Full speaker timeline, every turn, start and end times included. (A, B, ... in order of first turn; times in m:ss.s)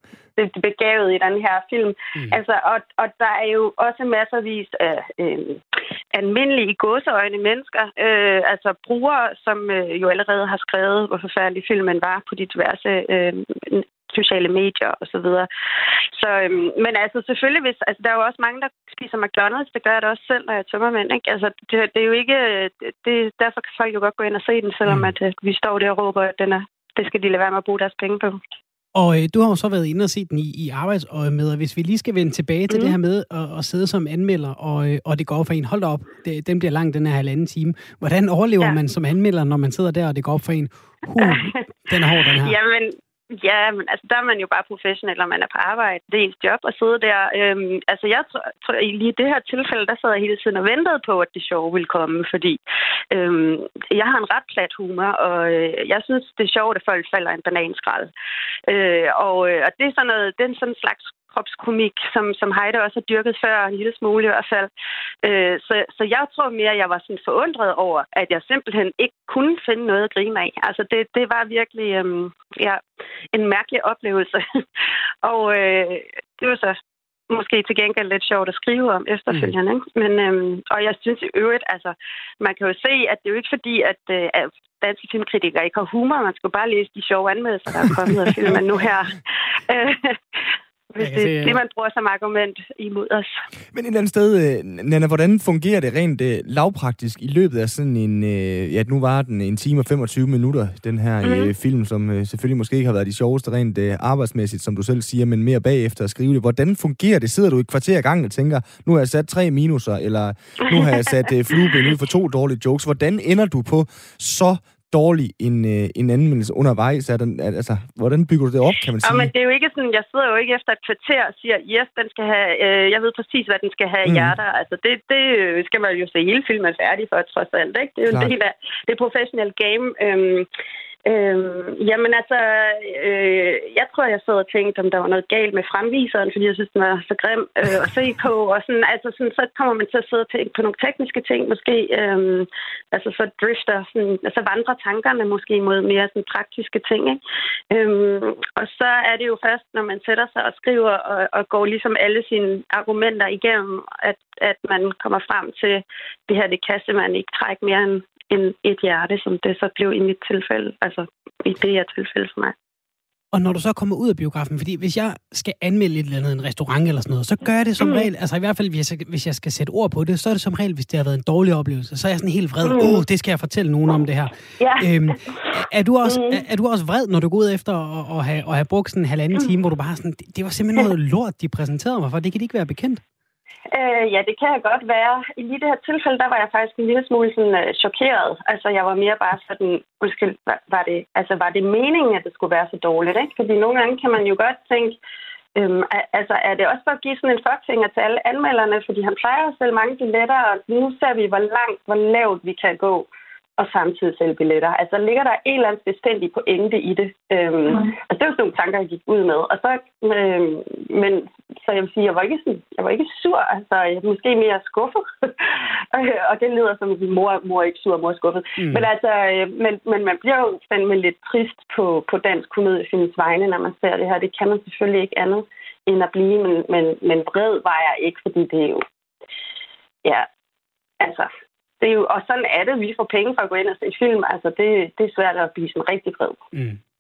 0:00.4-0:15.5 A
0:16.2-0:28.4 A
0:29.0-0:42.6 B
0:32.7-0:33.0 A
0:38.6-0:38.9 A
0:41.2-0:41.6 A
0:42.3-0:52.6 A
0:53.1-0:58.1 A
0:58.7-1:04.7 A
1:05.2-1:12.8 A
1:13.3-1:14.6 A
1:15.2-1:16.8 A
1:17.3-1:33.4 A
1:31.0-1:31.6 B
1:33.7-1:59.3 C
1:41.2-1:41.5 A
1:50.7-1:51.1 A
1:59.0-2:10.5 A
2:04.0-2:04.4 C
2:08.1-2:08.3 C
2:11.1-2:27.2 A
2:27.7-2:42.5 A
2:43.3-3:03.0 B
2:47.8-2:48.1 A
2:52.6-2:53.0 A
2:54.6-2:56.4 A
3:03.7-3:15.0 A
3:15.6-3:48.8 A
3:38.6-3:38.9 B
3:51.0-3:51.3 A
3:51.8-3:56.4 A
3:56.5-3:56.8 B